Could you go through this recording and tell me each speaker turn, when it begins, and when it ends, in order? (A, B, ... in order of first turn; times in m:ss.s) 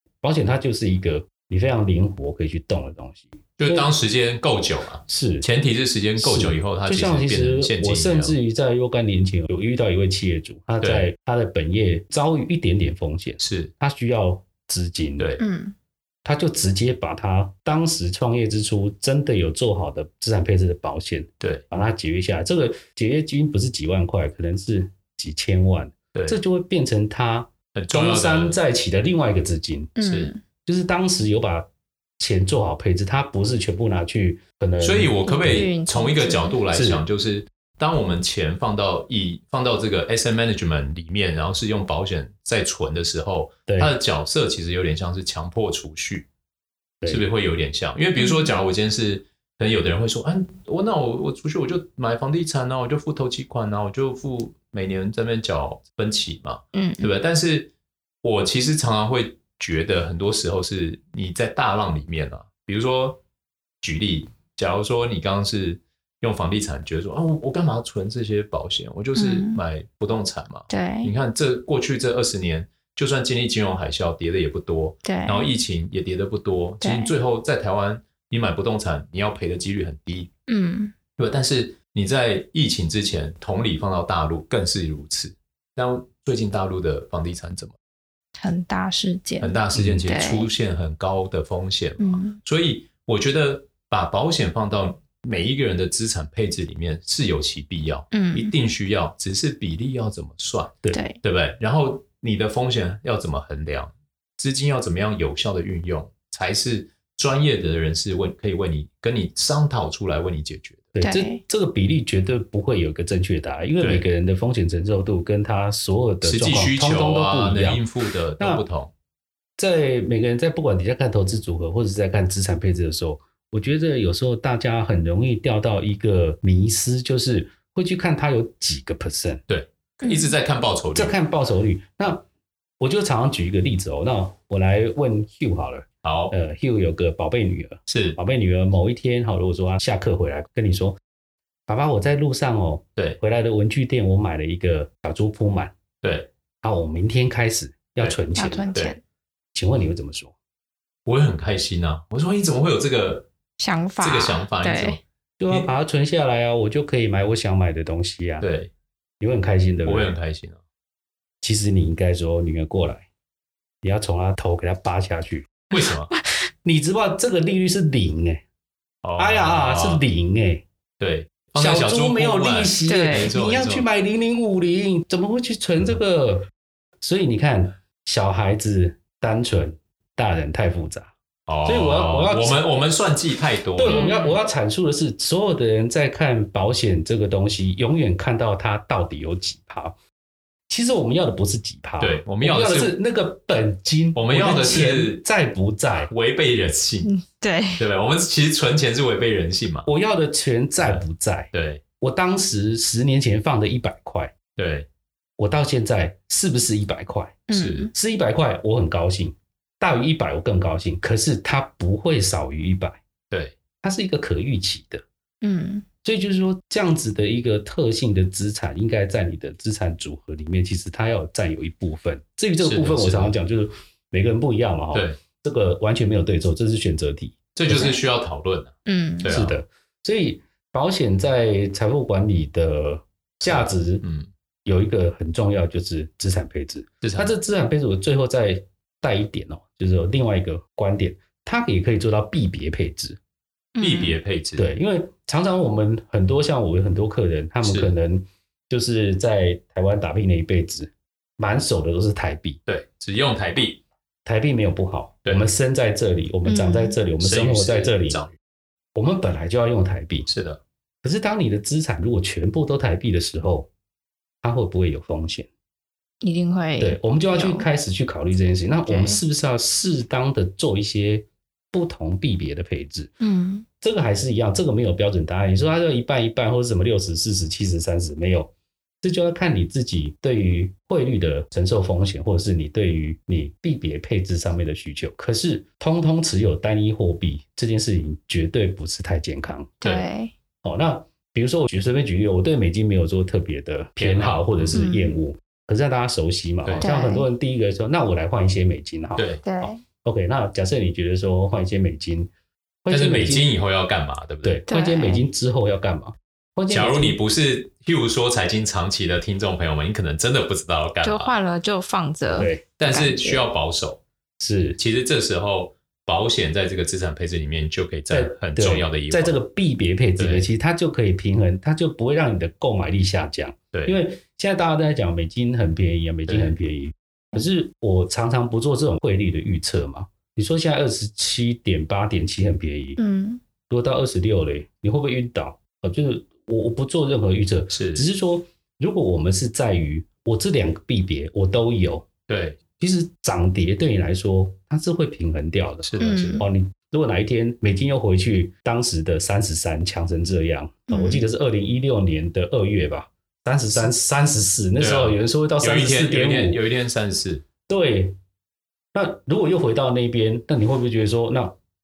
0:00.2-0:03.9 A
0:03.6-0:08.3 B
0:05.1-0:05.5 A
0:06.2-0:15.3 A
0:10.8-0:11.1 B
0:13.4-0:13.7 B
0:15.4-0:15.7 C
0:16.2-0:30.0 A
0:26.1-0:26.4 B
0:27.7-0:28.6 B
0:30.0-0:30.4 C
0:30.0-0:30.3 B
0:30.6-0:31.7 A
0:32.2-0:35.7 A
0:34.8-0:46.3 B
0:35.2-0:36.6 C
0:36.7-0:37.0 A
0:43.7-0:43.9 A
0:47.0-0:47.3 A
0:47.0-0:57.7 B
0:48.2-0:48.5 C
0:56.7-0:57.1 C
0:58.2-1:03.2 B
1:03.8-1:20.3 B
1:09.1-1:09.6 C
1:10.7-1:11.1 C
1:15.0-1:15.5 C
1:16.8-1:17.1 C
1:20.5-1:20.9 C
1:21.2-1:27.8 B
1:28.4-1:30.5 C
1:29.4-1:50.9 B
1:29.7-1:30.0 A
1:32.0-1:32.4 C
1:38.1-1:38.5 C
1:40.9-1:41.2 C
1:50.9-1:57.9 A
1:51.0-1:51.4 C
1:53.8-1:54.1 B
1:56.2-1:58.9 B
1:58.4-1:58.6 A
1:59.6-2:09.4 A
2:09.5-2:11.2 B
2:10.0-2:10.3 C
2:10.9-2:12.2 A
2:12.8-2:21.0 A
2:16.0-2:16.3 B
2:17.9-2:18.2 B
2:21.7-2:25.7 A
2:26.0-2:26.3 B
2:26.6-2:28.7 A
2:28.3-2:29.0 C
2:29.5-2:30.3 A
2:31.0-2:33.3 B
2:33.6-2:35.0 C
2:34.0-2:35.7 B
2:35.4-2:38.5 A
2:38.4-2:38.7 B
2:39.2-2:40.2 A
2:39.8-2:40.6 B
2:41.4-2:43.1 A
2:43.8-2:45.5 A
2:45.7-2:46.1 B
2:45.8-2:46.2 C
2:46.6-2:48.4 A
2:49.0-2:50.0 B
2:49.2-2:50.6 A
2:51.0-2:53.8 B
2:51.6-2:56.5 A
2:52.8-2:53.3 C
2:57.0-3:01.1 A
3:01.5-3:04.1 B
3:01.6-3:02.6 A
3:03.8-3:10.0 A
3:03.9-3:04.4 C
3:10.7-3:16.1 A
3:12.0-3:13.0 B
3:14.1-3:15.2 B
3:16.0-3:17.1 B
3:17.0-3:17.8 C
3:17.8-3:19.9 B
3:19.8-3:24.3 A
3:20.8-3:21.8 B
3:24.6-3:24.9 B
3:25.4-3:33.0 A
3:27.5-3:27.9 C
3:27.5-3:27.9 B
3:33.3-3:33.6 B
3:33.8-3:35.0 A
3:35.4-3:35.8 C
3:36.0-3:48.0 A
3:42.6-3:43.3 B
3:44.9-3:45.2 B
3:47.5-3:49.6 B
3:48.8-3:49.3 C
3:49.2-3:54.0 A
3:53.4-3:54.3 B
3:54.6-4:03.2 A
3:57.0-3:57.3 B
4:03.7-4:04.2 C
4:03.8-4:04.7 B
4:04.6-4:12.6 A
4:07.6-4:08.0 B
4:12.6-4:13.8 B
4:14.2-4:18.2 A
4:15.2-4:15.5 B
4:16.4-4:17.0 C
4:17.2-4:18.4 B
4:18.9-4:20.3 A
4:20.3-4:20.6 B
4:21.0-4:23.7 A
4:24.4-4:25.5 A
4:26.2-4:27.7 C
4:26.8-4:33.1 A
4:28.9-4:29.2 C
4:33.2-4:33.6 C
4:33.8-4:49.8 A
4:49.8-4:50.3 C
4:50.6-5:02.3 A
4:54.0-4:54.8 B
4:54.7-4:55.2 C
4:56.6-4:56.9 B
4:56.8-4:57.3 C
4:59.2-4:59.4 B
4:59.4-4:59.8 C
5:02.8-5:03.5 A
5:02.9-5:04.6 B
5:04.4-5:07.2 A
5:04.7-5:05.2 C
5:06.7-5:11.3 B
5:11.0-5:13.5 C
5:12.3-5:12.7 A
5:12.8-5:14.0 B
5:14.4-5:14.8 A
5:14.8-5:19.4 B
5:18.1-5:33.0 A
5:20.2-5:20.5 B
5:26.2-5:26.6 B
5:33.0-5:33.4 C
5:33.7-5:42.1 A
5:37.7-5:38.0 B
5:42.3-5:42.6 B
5:42.8-5:56.6 A
5:45.8-5:46.4 B
5:46.0-5:46.4 C
5:50.9-5:51.2 C
5:54.8-5:57.4 B
5:57.7-5:58.2 A
5:58.9-6:01.6 A